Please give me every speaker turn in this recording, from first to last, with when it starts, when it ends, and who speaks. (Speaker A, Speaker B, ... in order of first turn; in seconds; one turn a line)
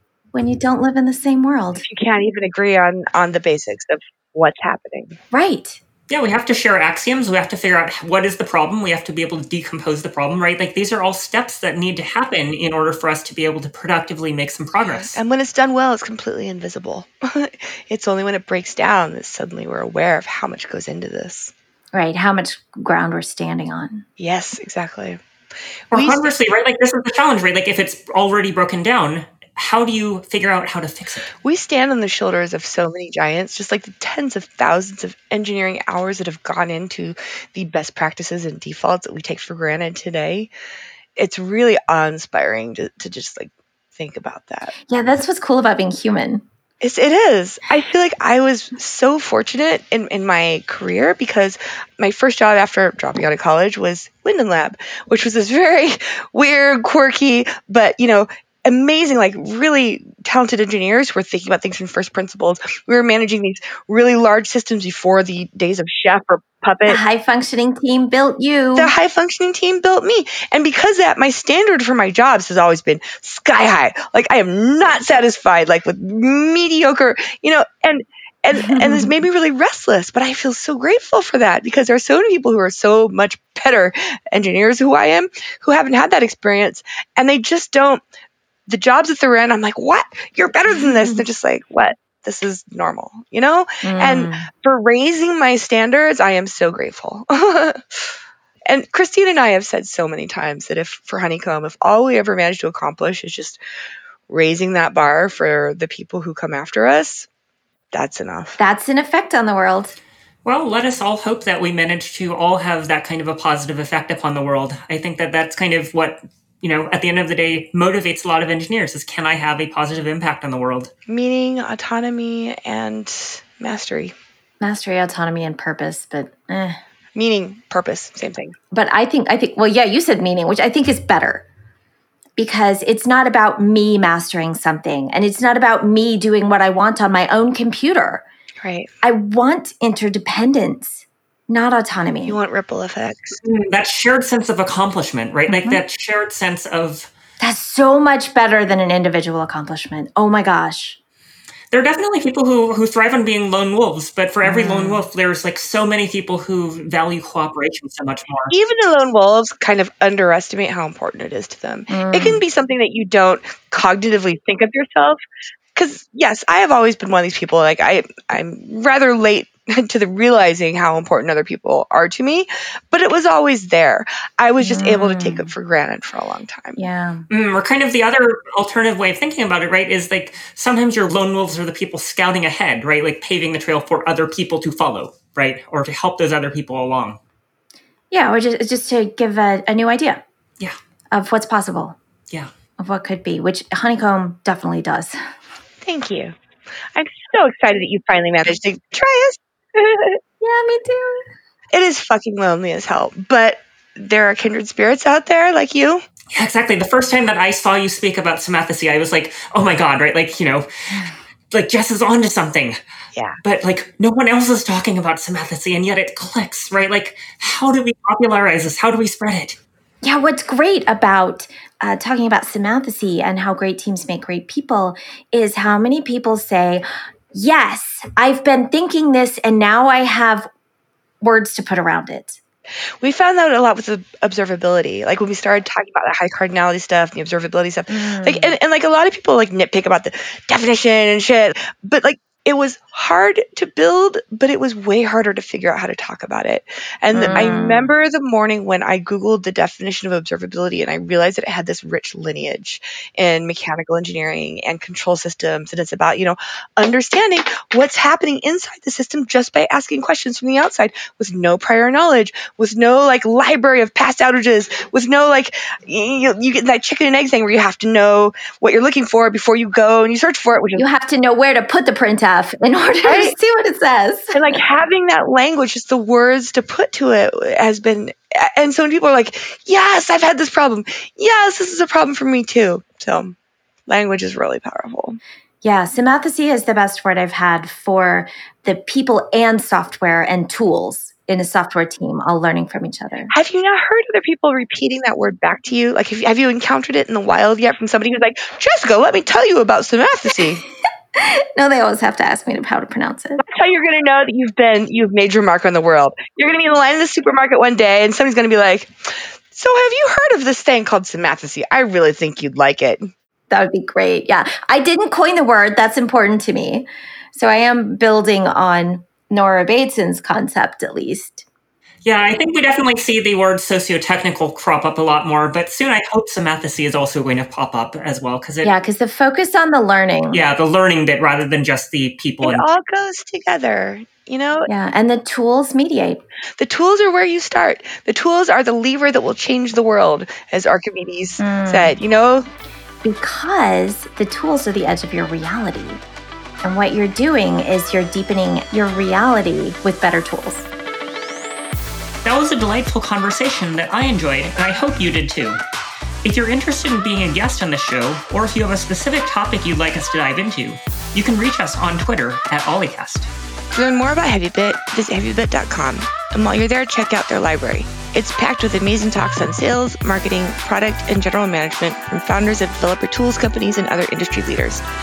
Speaker A: 0.3-1.8
Speaker B: 1.8-5.2
Speaker A: 5.3-5.8
Speaker C: 6.1-15.2
Speaker B: 14.8-21.5
Speaker A: 21.9-24.1
Speaker B: 24.2-25.2
Speaker B: 25.9-26.2
Speaker C: 25.9-31.3
Speaker B: 31.4-40.5
Speaker B: 41.2-44.7
Speaker A: 44.9-46.4
Speaker B: 46.8-67.0
Speaker A: 66.8-68.9
Speaker B: 68.8-88.0
Speaker A: 78.5-79.1
Speaker B: 88.7-98.1
Speaker A: 90.8-91.2
Speaker A: 93.8-94.5
Speaker B: 98.7-103.6
Speaker B: 104.3-107.3
Speaker B: 107.9-108.6
Speaker A: 108.6-110.0
Speaker C: 110.4-120.9
Speaker B: 121.1-124.1
Speaker A: 124.6-126.8
Speaker B: 127.1-128.5
Speaker A: 128.7-131.4
Speaker A: 132.4-138.2
Speaker B: 138.6-138.9
Speaker A: 139.0-142.4
Speaker B: 142.2-143.4
Speaker C: 143.4-147.1
Speaker A: 145.5-145.8
Speaker A: 147.4-151.0
Speaker C: 151.7-158.5
Speaker A: 154.4-155.0
Speaker B: 158.5-165.2
Speaker A: 161.9-162.4
Speaker B: 165.7-176.8
Speaker A: 174.6-175.5
Speaker A: 176.8-177.2
Speaker C: 177.3-187.2
Speaker A: 188.1-190.2
Speaker A: 191.1-192.0
Speaker A: 192.8-195.2
Speaker B: 195.8-196.3
Speaker B: 196.9-200.2
Speaker A: 200.4-201.3
Speaker B: 201.7-206.0
Speaker C: 206.3-210.7
Speaker C: 211.5-212.8
Speaker C: 213.4-219.6
Speaker A: 220.0-230.5
Speaker A: 231.2-232.4
Speaker B: 233.0-270.8
Speaker A: 237.9-238.5
Speaker A: 247.1-247.9
Speaker A: 270.8-274.6
Speaker B: 273.0-273.3
Speaker B: 274.3-283.3
Speaker B: 283.9-285.2
Speaker A: 285.6-293.3
Speaker B: 293.3-300.6
Speaker A: 301.1-303.4
Speaker B: 303.4-313.1
Speaker A: 313.5-321.4
Speaker C: 322.0-328.7
Speaker A: 328.6-330.4
Speaker C: 330.3-332.6
Speaker B: 332.4-334.7
Speaker A: 334.7-336.2
Speaker B: 336.6-342.5
Speaker A: 341.4-341.9
Speaker A: 343.0-346.0
Speaker A: 346.6-350.7
Speaker C: 352.2-355.6
Speaker C: 356.2-363.3
Speaker B: 363.7-374.8